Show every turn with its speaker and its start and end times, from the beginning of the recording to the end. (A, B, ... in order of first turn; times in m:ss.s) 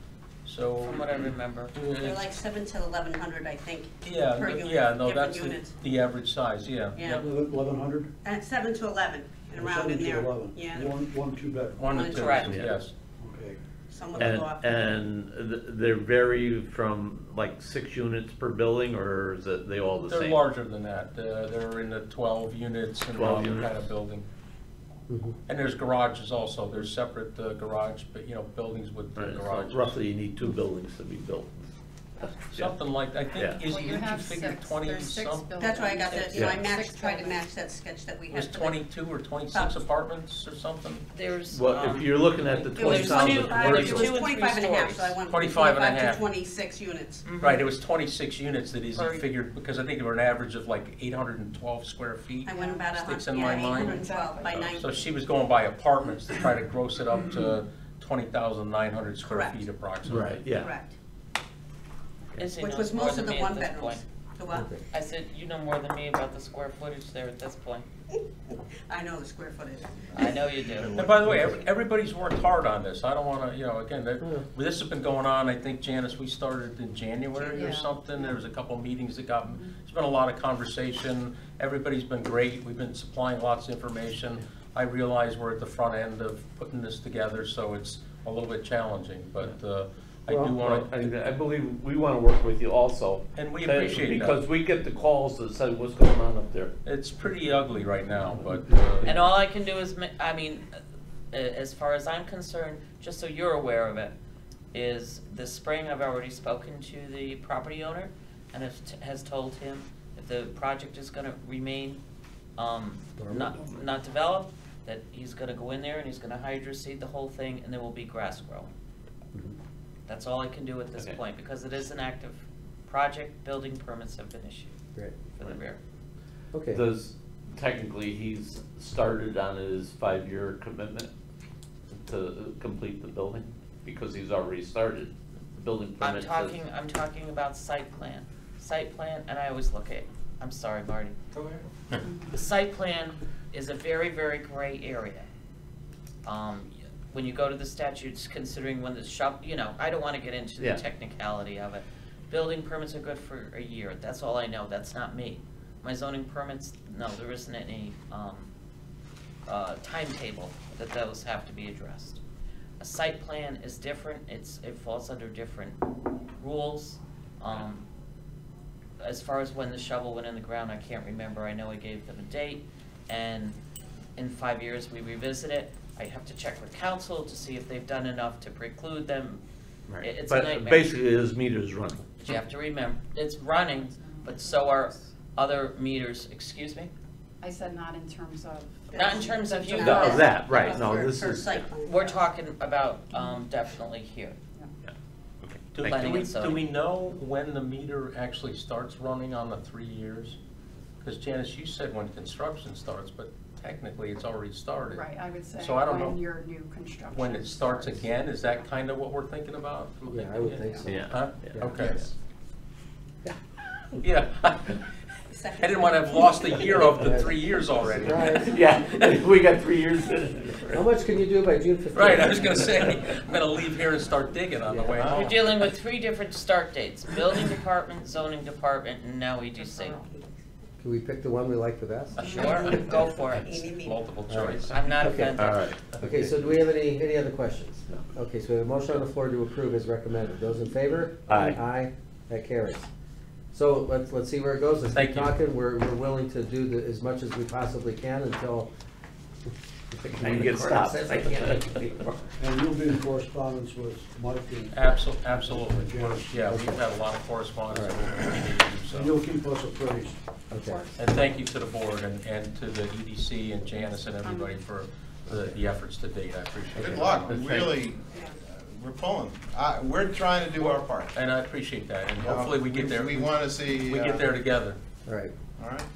0:00.4-0:02.2 A
0:00.8-0:01.7 B
0:02.0-0:05.8 C
0:04.0-0:07.2 A
0:07.0-0:07.2 C
0:07.2-0:08.1 D
0:08.2-0:10.9 C
0:09.5-0:11.9 D
0:11.8-0:13.0 A
0:11.9-0:12.5 C
0:12.0-0:12.5 B
0:12.4-0:12.7 E
0:13.2-0:13.6 D
0:13.9-0:15.0 C
0:14.2-0:20.4 E
0:20.0-0:24.2 A
0:23.1-0:23.7 E
0:25.1-0:25.4 F
0:25.5-0:30.0 A
0:29.2-0:31.7 E
0:32.2-0:32.7 E
0:32.5-0:35.5 A
0:33.3-0:33.6 E
0:33.5-0:37.5 G
0:35.6-0:38.8 C
0:38.3-0:41.1 A
0:39.5-0:39.8 C
0:41.1-0:42.2 B
0:41.5-0:44.2 E
0:42.3-0:44.0 A
0:42.8-0:47.3 C
0:42.8-0:45.2 B
0:45.3-0:46.3 A
0:47.2-0:47.6 B
0:47.4-1:00.5 A
0:48.9-0:49.2 B
0:52.4-0:55.1 C
0:52.6-0:52.9 G
0:53.6-0:54.6 G
0:59.2-0:59.7 C
1:00.1-1:00.7 E
1:00.5-1:01.0 C
1:02.4-1:04.0 B
1:02.6-1:04.7 C
1:04.5-1:04.8 F
1:04.9-1:07.9 B
1:08.9-1:10.5 C
1:10.1-1:11.0 B
1:10.9-1:31.0 A
1:11.2-1:11.6 F
1:14.2-1:14.5 F
1:17.5-1:18.3 G
1:19.4-1:19.8 G
1:30.3-1:36.7 E
1:33.4-1:34.4 A
1:36.8-1:39.2 A
1:39.0-1:40.8 B
1:41.3-1:44.1 B
1:44.7-1:52.0 B
1:52.6-1:58.7 B
1:53.2-1:53.5 F
2:00.1-2:04.8 B
2:05.3-2:05.8 B
2:06.5-2:06.8 F
2:06.7-2:11.1 E
2:12.0-2:16.6 E
2:16.0-2:21.2 B
2:21.4-2:22.0 A
2:22.0-2:22.3 G
2:22.3-2:25.3 B
2:26.2-2:38.5 B
2:39.5-2:42.2 B
2:42.8-2:45.8 B
2:46.4-2:47.8 B
2:49.0-2:53.6 B
2:54.2-2:59.4 B
2:59.9-3:02.3 E
3:00.0-3:00.9 B
3:02.2-3:06.9 B
3:03.8-3:05.0 G
3:07.4-3:10.4 G
3:08.9-3:12.2 C
3:08.9-3:10.8 B
3:09.8-3:11.7 E
3:11.8-3:14.4 B
3:13.1-3:13.4 G
3:14.8-3:16.1 E
3:15.8-3:20.4 A
3:15.9-3:16.6 B
3:21.0-3:26.2 A
3:24.9-3:28.2 G
3:27.1-3:32.1 A
3:30.1-3:32.1 F
3:30.9-3:31.6 E
3:34.0-3:34.9 A
3:35.3-3:36.6 C
3:35.6-3:39.0 A
3:36.7-3:38.6 F
3:38.3-3:40.8 E
3:40.7-3:42.8 F
3:42.0-3:45.4 A
3:44.7-3:45.3 F
3:45.1-3:50.0 B
3:49.6-3:50.4 C
3:50.8-3:52.9 F
3:52.2-3:52.5 A
3:52.2-3:54.0 C
3:52.3-3:53.6 B
3:53.8-3:55.1 A
3:54.3-3:55.5 F
3:54.7-3:55.6 B
3:55.4-3:55.8 E
3:55.8-3:56.2 A
3:56.0-4:02.9 F
4:01.3-4:01.6 E
4:03.5-4:08.7 F
4:05.0-4:05.3 A
4:09.9-4:12.1 F
4:10.2-4:12.3 E
4:12.4-4:16.4 D
4:14.7-4:19.2 A
4:16.4-4:16.8 F
4:17.7-4:18.0 F
4:18.9-4:20.2 D
4:20.5-4:20.9 F
4:20.6-4:21.1 G
4:21.0-4:27.8 A
4:23.7-4:24.6 G
4:25.3-4:25.6 F
4:26.8-4:27.3 F
4:26.8-4:31.1 H
4:30.6-4:34.8 A
4:32.2-4:34.4 H
4:35.1-4:35.4 F
4:35.6-4:35.9 H